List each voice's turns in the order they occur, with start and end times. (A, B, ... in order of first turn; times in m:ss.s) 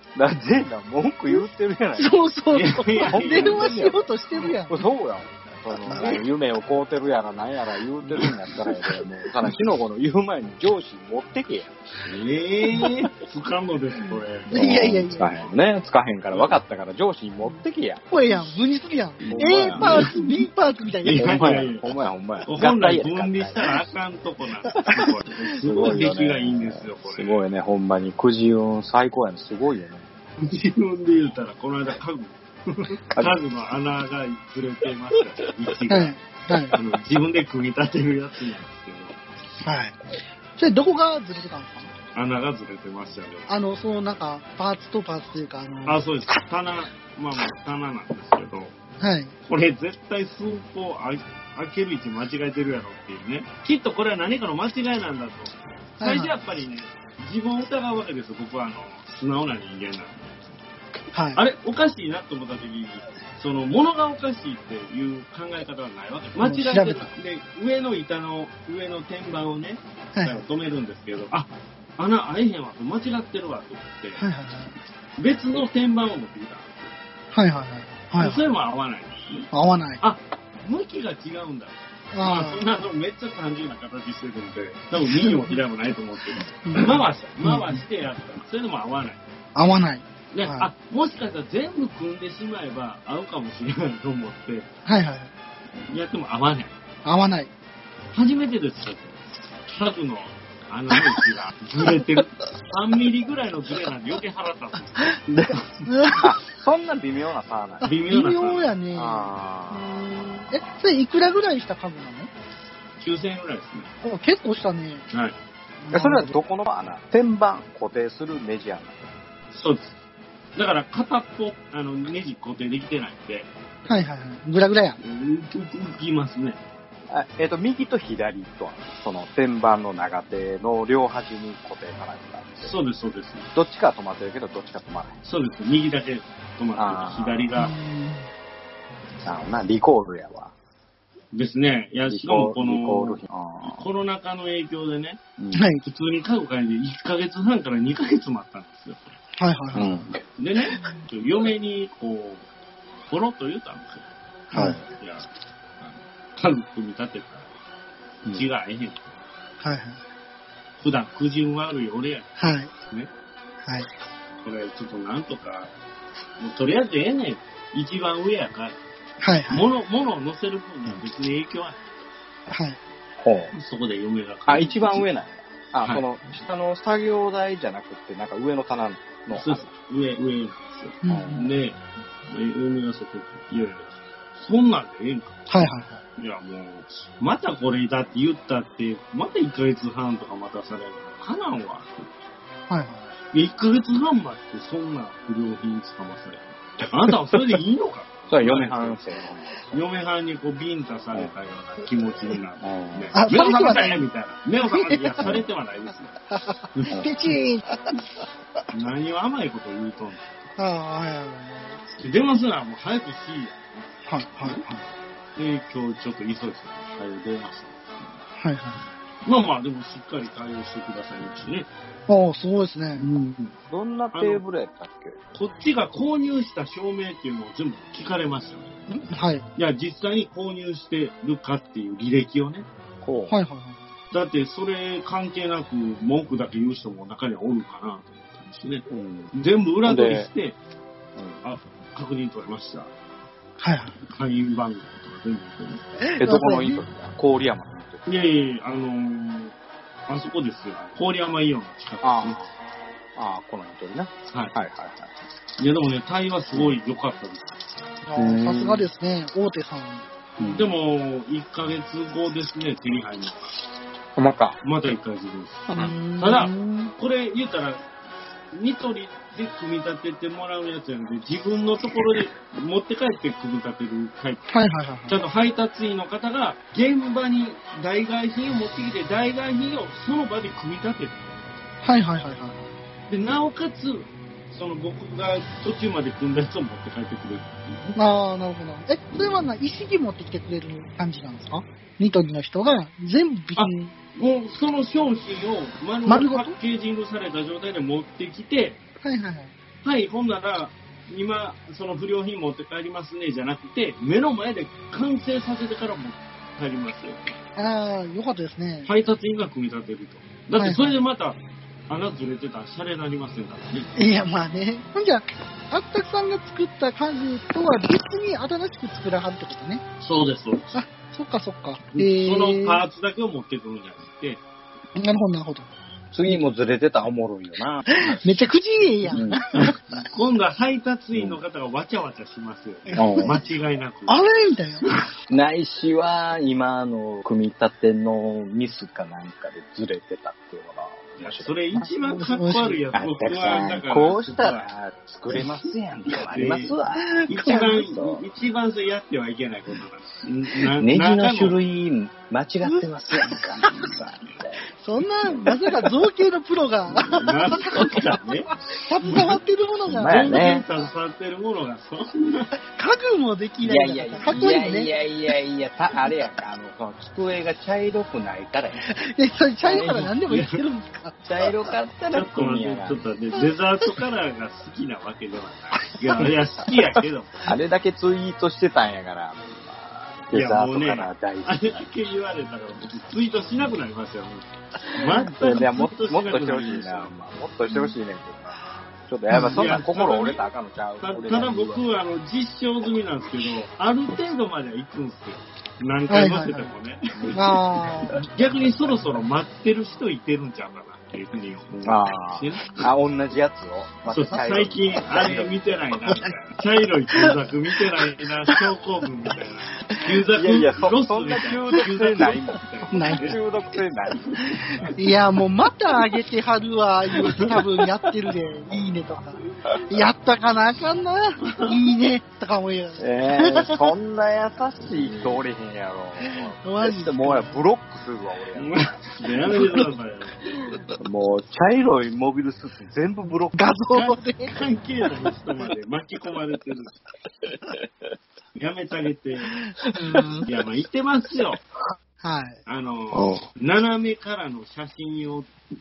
0:00.2-0:02.2 A
0:02.0-0:04.8 B
0:02.5-0:04.5 C
0:03.0-0:04.1 A
0:04.7-0:11.8 A
0:12.0-0:14.6 C
0:14.5-0:15.3 B
0:14.5-0:18.0 A
0:18.1-0:21.6 B
0:19.2-0:20.4 C
0:19.3-0:20.1 A
0:21.0-0:21.9 C
0:21.2-0:23.8 A
0:22.4-0:27.4 C
0:25.6-0:30.1 A
0:30.4-0:36.2 C
0:35.9-0:36.8 B
0:36.7-0:39.2 C
0:39.6-0:40.0 B
0:40.6-0:41.9 B
0:42.1-0:43.5 C
0:43.5-0:46.0 B
0:45.9-0:48.7 C
0:49.0-0:49.3 B
0:49.4-1:00.5 C
0:56.0-0:56.3 B
1:01.1-1:01.4 B
1:01.3-1:14.2 C
1:06.4-1:07.1 B
1:14.2-1:14.7 B
1:15.2-1:16.9 C
1:17.3-1:18.4 B
1:18.2-1:19.5 C
1:19.5-1:20.0 B
1:20.0-1:29.2 C
1:22.1-1:22.6 B
1:25.1-1:25.5 B
1:26.6-1:27.8 B
1:29.6-1:30.7 B
1:30.3-1:34.7 C
1:34.9-1:35.3 B
1:35.9-1:36.7 C
1:37.0-1:37.5 B
1:38.1-1:46.1 C
1:45.3-1:45.5 A
1:45.9-1:46.3 B
1:46.2-1:47.9 A
1:47.8-1:52.3 B
1:47.8-1:48.8 C
1:48.9-1:50.7 A
1:53.0-1:53.9 C
1:54.0-1:55.0 B
1:55.1-1:55.4 C
1:55.8-1:56.4 B
1:55.9-1:59.1 A
1:59.5-2:00.0 C
2:00.6-2:03.5 C
2:03.9-2:05.0 B
2:05.0-2:06.6 C
2:07.1-2:12.8 A
2:12.6-2:13.5 C
2:13.5-2:15.1 A
2:15.2-2:17.7 C
2:16.8-2:17.5 A
2:17.6-2:18.3 B
2:19.2-2:20.5 A
2:21.3-2:25.2 C
2:22.1-2:23.9 A
2:25.4-2:25.7 A
2:25.5-2:25.8 B
2:25.8-2:29.2 C
2:29.4-2:29.9 B
2:29.7-2:30.2 A
2:30.4-2:32.5 C
2:33.1-2:34.1 C
2:34.5-2:34.8 B
2:34.5-2:34.9 A
2:34.9-2:35.3 C
2:35.8-2:37.5 C
2:38.3-2:39.1 C
2:39.6-2:40.0 B
2:40.8-2:42.3 C
2:42.4-2:42.7 B
2:44.4-2:45.7 C
2:46.4-2:48.8 C
2:49.2-2:49.6 B
2:49.5-2:51.8 C
2:52.5-2:52.8 B
2:53.2-2:53.5 A
2:53.5-2:55.0 C
2:54.5-2:59.7 A
2:59.3-3:12.1 C
3:01.0-3:01.5 B
3:01.0-3:01.5 A
3:05.5-3:06.0 B
3:12.7-3:13.1 B
3:13.3-3:19.0 C
3:18.3-3:19.8 A
3:19.7-3:26.2 C
3:22.6-3:23.2 A
3:23.1-3:24.0 B
3:24.8-3:25.3 B
3:25.2-3:25.5 A
3:26.3-3:27.7 B
3:26.7-3:27.1 C
3:28.7-3:30.3 C
3:30.6-3:31.8 B
3:32.0-3:33.9 C
3:34.1-3:34.8 B
3:34.4-3:34.6 C
3:35.4-3:38.2 C
3:38.4-3:38.8 B
3:39.2-3:41.7 C
3:42.1-3:43.1 B
3:43.0-3:43.5 C
3:43.7-3:45.2 A
3:44.1-3:44.4 C
3:45.3-3:48.8 C
3:48.9-3:49.4 B
3:49.6-3:52.7 C
3:53.0-3:53.4 A
3:53.3-3:53.9 B
3:54.1-4:00.6 C
3:58.9-3:59.3 A
3:59.8-4:00.3 A
4:01.2-4:01.4 A
4:01.4-4:02.9 C
4:03.6-4:03.9 B
4:04.0-4:05.8 C
4:06.0-4:06.8 B
4:06.2-4:08.0 A
4:08.0-4:09.6 C
4:10.1-4:12.4 C
4:12.0-4:12.6 A
4:13.1-4:15.1 A
4:14.3-4:14.5 C
4:15.6-4:17.6 C
4:18.0-4:20.0 B
4:18.1-4:18.9 A
4:20.4-4:20.7 A
4:20.4-4:23.6 C
4:24.2-4:24.6 A
4:24.6-4:27.8 C
4:25.7-4:26.9 B
4:28.5-4:34.5 C
4:34.5-4:35.2 B
4:35.1-4:41.4 C
4:41.8-4:42.6 B
4:43.1-4:48.0 C
4:48.0-4:53.9 B
4:53.6-4:58.8 C
4:56.0-4:56.6 B
4:59.0-4:59.5 B
4:59.8-5:07.2 C
5:07.6-5:08.9 B
5:08.8-5:13.9 C
5:10.6-5:11.0 B
5:14.0-5:19.8 B
5:20.0-5:20.8 C
5:20.7-5:22.8 B
5:21.9-5:24.4 C
5:25.0-5:25.7 B
5:26.1-5:28.2 A
5:27.9-5:29.8 B
5:29.1-5:29.4 A
5:29.5-5:34.2 C
5:31.1-5:31.4 A
5:32.9-5:33.3 B
5:32.9-5:33.4 A
5:34.1-5:34.9 B
5:35.3-5:41.6 A
5:41.2-5:44.7 C
5:42.1-5:42.8 B
5:42.9-5:48.2 A
5:45.3-5:51.6 C
5:47.1-5:47.8 B
5:50.6-5:54.6 A
5:52.6-5:53.9 B
5:54.8-5:58.2 B
5:55.3-5:55.5 A
5:57.0-5:59.4 C
5:58.8-6:00.3 B
5:59.9-6:00.7 A
6:00.0-6:02.5 C
6:02.7-6:04.9 B
6:03.6-6:08.9 A
6:04.3-6:04.5 C
6:08.9-6:11.2 B
6:09.6-6:10.1 A
6:10.0-6:10.6 C
6:11.3-6:13.0 A
6:12.1-6:17.5 C
6:17.4-6:21.8 A
6:20.3-6:27.1 C
6:25.2-6:31.8 A
6:29.3-6:29.6 B
6:29.5-6:30.4 C
6:31.0-6:37.5 C
6:36.1-6:36.7 B
6:37.2-6:37.5 A
6:37.3-6:38.2 B
6:38.1-6:39.2 A
6:38.2-6:42.9 C
6:41.8-6:46.2 A
6:44.1-6:53.4 C
6:50.3-6:54.9 A
6:52.9-6:53.3 B
6:54.2-6:55.0 C
6:55.0-7:03.9 B
6:57.2-6:57.6 C
7:01.4-7:01.9 C
7:03.0-7:08.8 A
7:05.0-7:05.4 C
7:06.2-7:07.6 B
7:08.6-7:10.6 C
7:11.0-7:13.7 A
7:13.6-7:14.6 B
7:13.9-7:17.0 C
7:18.6-7:19.5 C
7:19.9-7:20.4 B
7:20.4-7:21.6 C
7:22.2-7:22.6 B
7:22.6-7:25.5 C
7:23.1-7:23.5 A